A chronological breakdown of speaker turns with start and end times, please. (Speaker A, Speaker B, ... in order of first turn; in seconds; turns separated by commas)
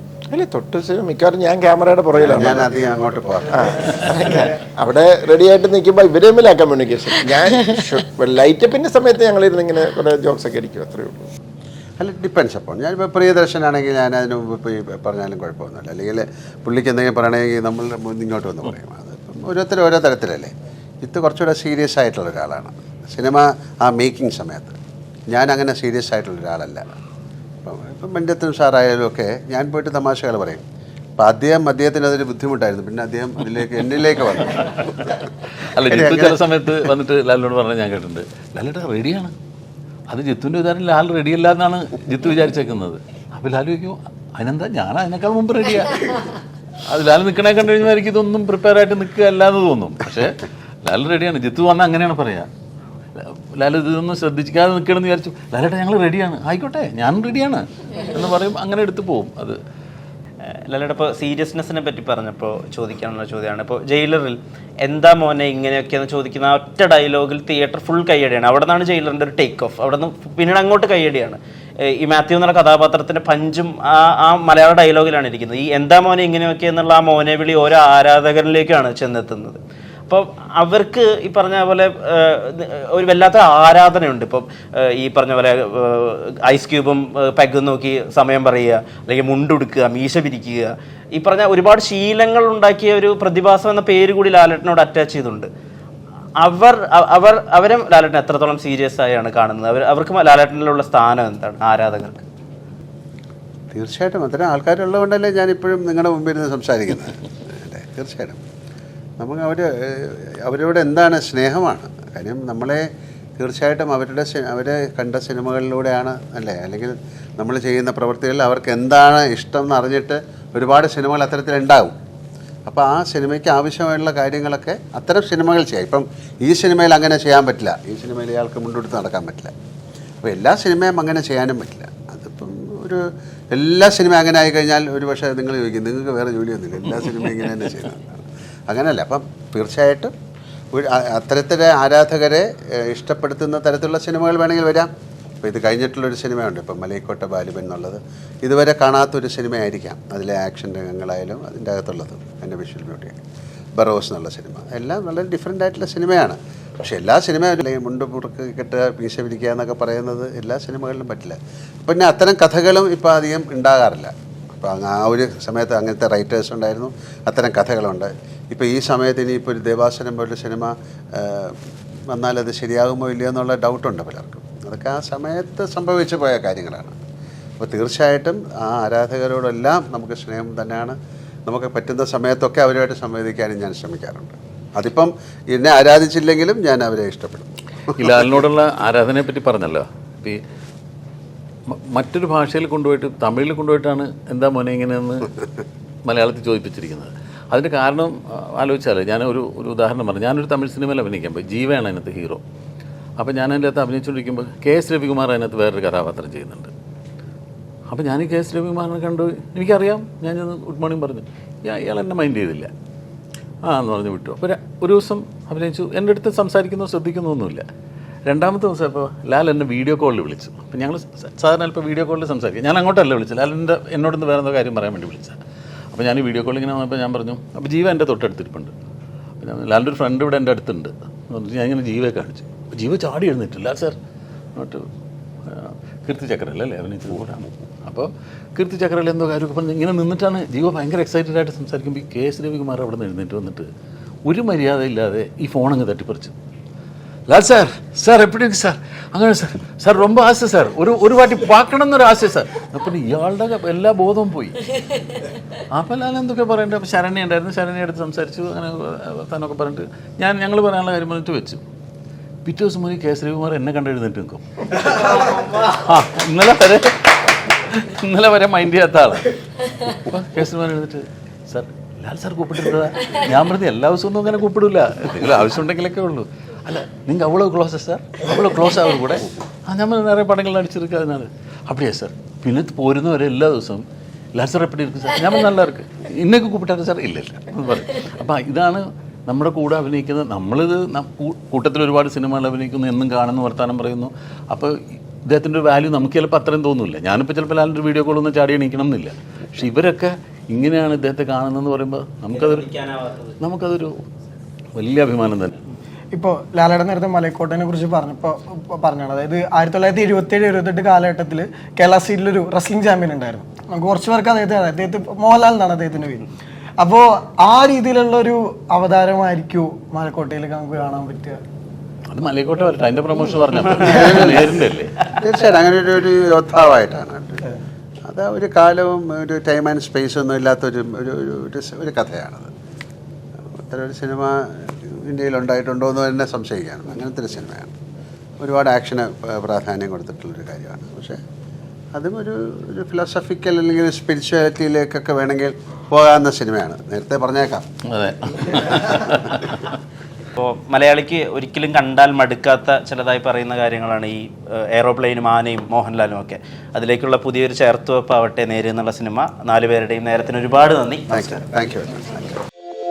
Speaker A: 0.3-2.8, Speaker B: 2.2-4.0, Speaker A: 3.5-11.3, Speaker B: 12.0-24.8, Speaker B: 25.3-26.9, Speaker B: 27.6-30.6, Speaker B: 31.2-35.0, Speaker C: 34.6-35.1, Speaker C: 35.7-39.3, Speaker B: 35.9-36.4, Speaker C: 40.1-52.5, Speaker C: 53.2-59.6, Speaker D: 60.6-95.5, Speaker D: 96.4-102.2, Speaker B: 103.7-108.4, Speaker B: 109.2-112.9, Speaker B: 113.4-122.0, Speaker B: 122.7-129.5, Speaker B: 130.2-140.1, Speaker B: 140.7-144.9, Speaker B: 145.4-153.2, Speaker B: 153.8-171.6, Speaker B: 172.1-177.0, Speaker B: 177.6-181.0, Speaker B: 181.5-188.0, Speaker C: 188.0-190.4, Speaker C: 191.7-195.3, Speaker C: 196.1-202.4, Speaker C: 203.2-206.7, Speaker C: 207.9-212.7, Speaker C: 213.6-217.7, Speaker C: 218.3-225.4, Speaker C: 225.9-228.7, Speaker C: 229.4-234.0, Speaker C: 234.6-234.9, Speaker C: 235.4-243.7, Speaker C: 244.3-246.3, Speaker C: 247.3-254.7, Speaker C: 255.7-261.6, Speaker C: 262.4-283.8, Speaker C: 284.4-302.7, Speaker D: 302.4-303.3, Speaker C: 303.4-304.0, Speaker C: 304.8-305.6, Speaker E: 306.1-316.3, Speaker E: 316.8-321.4, Speaker C: 322.1-325.0, Speaker B: 323.9-324.5, Speaker B: 325.2-327.5, Speaker B: 328.1-332.5, Speaker B: 333.6-337.8, Speaker B: 338.4-341.2, Speaker B: 341.9-347.7, Speaker C: 347.9-349.6, Speaker D: 350.4-361.4, Speaker B: 361.1-362.4